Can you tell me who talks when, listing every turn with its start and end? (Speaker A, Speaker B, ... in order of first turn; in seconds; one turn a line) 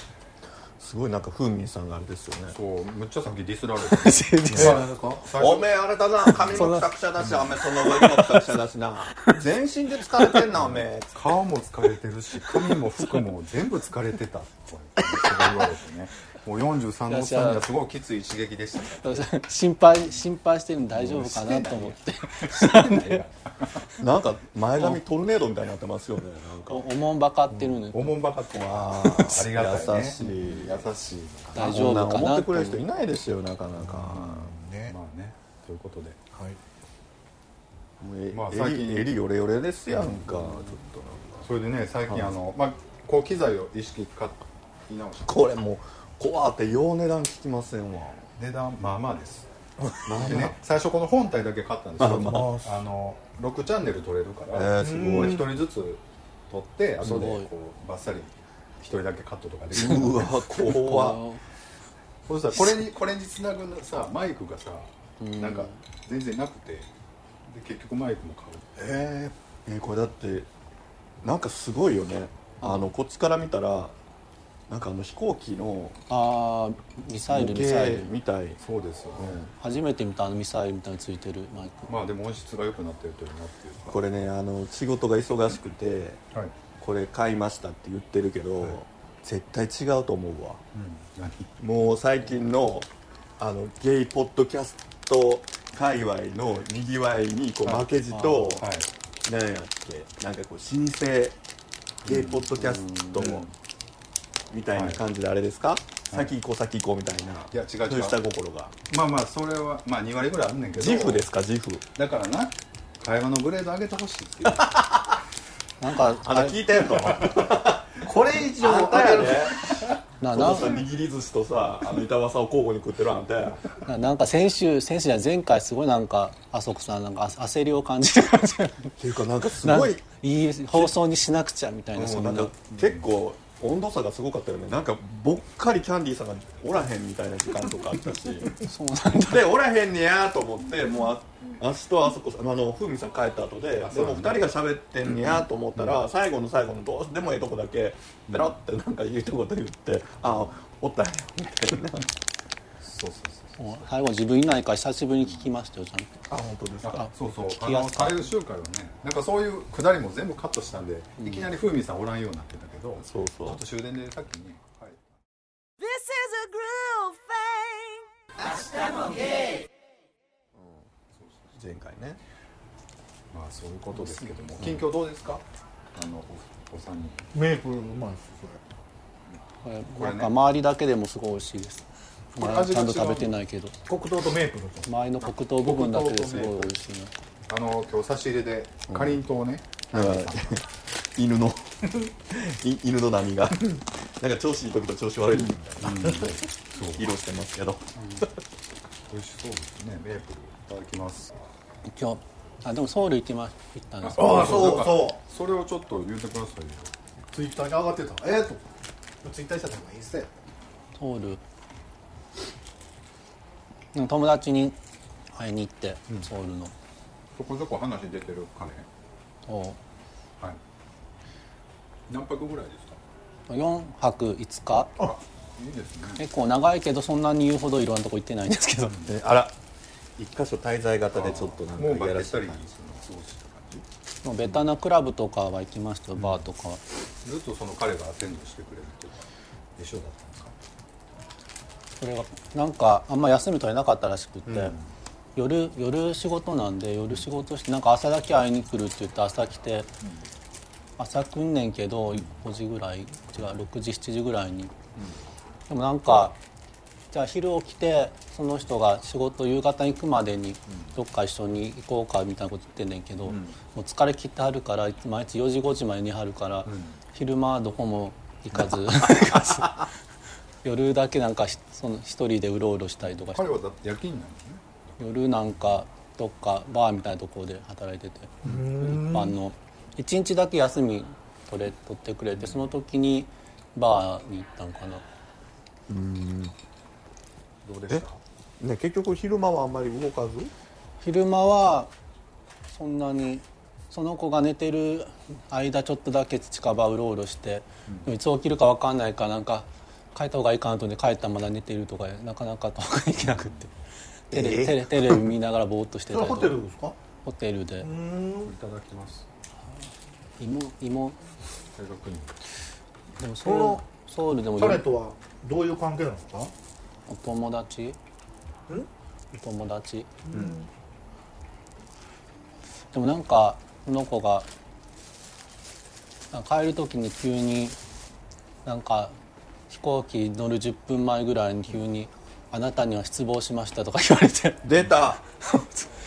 Speaker A: 0.8-2.6
Speaker B: 2.5-5.8
Speaker C: 3.9-4.8
Speaker D: 4.5-5.3
Speaker A: 4.5-11.2
Speaker B: 6.3-6.6
Speaker C: 6.5-6.9
Speaker B: 7.2-7.6
Speaker C: 7.9-8.5
Speaker B: 10.5-19.3
Speaker C: 12.5-13.2
Speaker C: 15.0-15.7
Speaker C: 17.1-17.7
Speaker C: 18.9-23.2
Speaker B: 20.9-23.9
Speaker A: 24.0-26.9
Speaker C: 26.7-28.2
Speaker B: 27.5-31.9
Speaker A: 28.6-30.9
Speaker C: 31.5-32.8
Speaker A: 31.6-34.5
Speaker B: 33.8-36.2
Speaker D: 34.4-35.0
Speaker D: 36.3-36.6
Speaker A: 38.0-41.5
Speaker B: 38.3-39.1
Speaker B: 41.4-45.4
Speaker A: 45.2-48.3
Speaker B: 48.4-49.5
Speaker A: 49.8-50.6
Speaker B: 50.1-60.4
Speaker A: 52.0-52.6
Speaker D: 52.0-52.7
Speaker A: 54.5-55.5
Speaker D: 54.8-55.6
Speaker C: 57.0-57.5
Speaker A: 59.7-61.2
Speaker C: 59.8-61.4
Speaker B: 62.3-66.9
Speaker C: 65.2-65.8
Speaker B: 67.5-68.7
Speaker A: 68.8-70.5
Speaker A: 71.2-74.0
Speaker C: 72.6-72.9
Speaker A: 74.7-76.0
Speaker C: 76.1-78.1
Speaker A: 77.3-78.6
Speaker B: 78.6-79.5
Speaker A: 79.2-79.5
Speaker C: 79.6-82.0
Speaker B: 81.9-84.0
Speaker A: 83.9-86.2
Speaker A: 86.8-90.6
Speaker B: 90.7-91.5
Speaker A: 91.6-98.7
Speaker C: 98.1-98.6
Speaker B: 98.5-98.9
Speaker A: 99.2-101.4
Speaker B: 102.0-102.5
Speaker A: 102.0-103.5
Speaker C: 102.5-103.4
Speaker B: 103.2-103.5
Speaker A: 104.5-108.8
Speaker B: 104.7-105.0
Speaker B: 107.5-108.2
Speaker B: 108.9-111.2
Speaker A: 110.8-111.8
Speaker B: 112.0-114.8
Speaker A: 114.7-115.1
Speaker C: 115.8-116.6
Speaker A: 116.1-123.6
Speaker D: 118.0-119.6
Speaker C: 120.2-120.8
Speaker C: 123.8-128.9
Speaker A: 129.0-130.0
Speaker C: 129.6-132.5
Speaker A: 131.9-138.6
Speaker B: 132.7-133.1
Speaker C: 138.6-139.5
Speaker A: 139.2-152.1
Speaker B: 143.8-144.6
Speaker B: 145.1-146.0
Speaker B: 152.8-153.9
Speaker C: 153.6-156.2
Speaker A: 156.3-157.1
Speaker B: 156.8-165.2
Speaker C: 156.9-158.3
Speaker A: 163.0-163.6
Speaker E: 165.9-168.0
Speaker A: 170.6-170.8
Speaker B: 171.1-171.5
Speaker A: 171.6-172.2
Speaker B: 173.3-177.3
Speaker C: 174.0-174.3
Speaker D: 177.3-178.6
Speaker C: 179.6-183.8
Speaker B: 179.9-180.3
Speaker B: 182.4-183.3
Speaker D: 183.9-184.9
Speaker C: 184.8-187.1
Speaker B: 185.2-186.7
Speaker B: 187.5-190.5
Speaker A: 188.9-189.2
Speaker A: 189.9-198.4
Speaker B: 195.8-197.1
Speaker B: 199.1-201.3
Speaker C: 201.9-204.7
Speaker B: 204.0-206.9
Speaker A: 204.2-205.2
Speaker D: 204.2-205.2
Speaker D: 207.3-208.6
Speaker D: 209.2-210.3
Speaker C: 210.9-211.4
Speaker C: 213.9-214.8
Speaker C: 215.3-216.7
Speaker B: 217.4-218.9
Speaker C: 219.5-219.8
Speaker B: 222.1-223.0
Speaker C: 223.5-225.0
Speaker B: 224.8-226.2
Speaker C: 226.2-229.0
Speaker B: 228.9-229.1
Speaker A: 229.1-229.6
Speaker A: 230.2-232.7
Speaker B: 231.1-233.8
Speaker C: 234.2-236.8
Speaker B: 237.2-239.2
Speaker B: 239.8-240.6
Speaker C: 242.0-244.8
Speaker B: 244.5-244.9
Speaker C: 245.4-249.9
Speaker C: 251.0-254.7
Speaker C: 255.7-256.4
Speaker C: 257.1-269.9
Speaker B: 263.3-263.6
Speaker B: 266.7-267.0
Speaker C: 270.6-273.6
Speaker B: 273.3-274.7
Speaker C: 275.0-285.1
Speaker D: 278.4-279.4
Speaker A: 285.9-286.5
Speaker B: 287.6-288.2
Speaker A: 288.6-290.5
Speaker C: 291.0-291.9
Speaker C: 292.7-303.7
Speaker B: 303.2-303.6
Speaker C: 304.3-306.6
Speaker D: 304.3-304.8
Speaker D: 306.1-307.0
Speaker C: 307.2-307.9
Speaker D: 307.8-308.5
Speaker B: 308.4-309.2
Speaker C: 310.4-311.2
Speaker B: 311.8-312.4
Speaker C: 313.2-314.9
Speaker D: 313.4-313.8
Speaker D: 314.6-316.5
Speaker C: 317.1-318.0
Speaker C: 319.3-320.1
Speaker D: 320.3-320.7
Speaker B: 320.3-320.6
Speaker C: 322.9-324.5
Speaker C: 326.3-327.8
Speaker C: 328.6-329.1
Speaker C: 329.7-334.7
Speaker A: 334.6-335.6
Speaker C: 335.6-335.9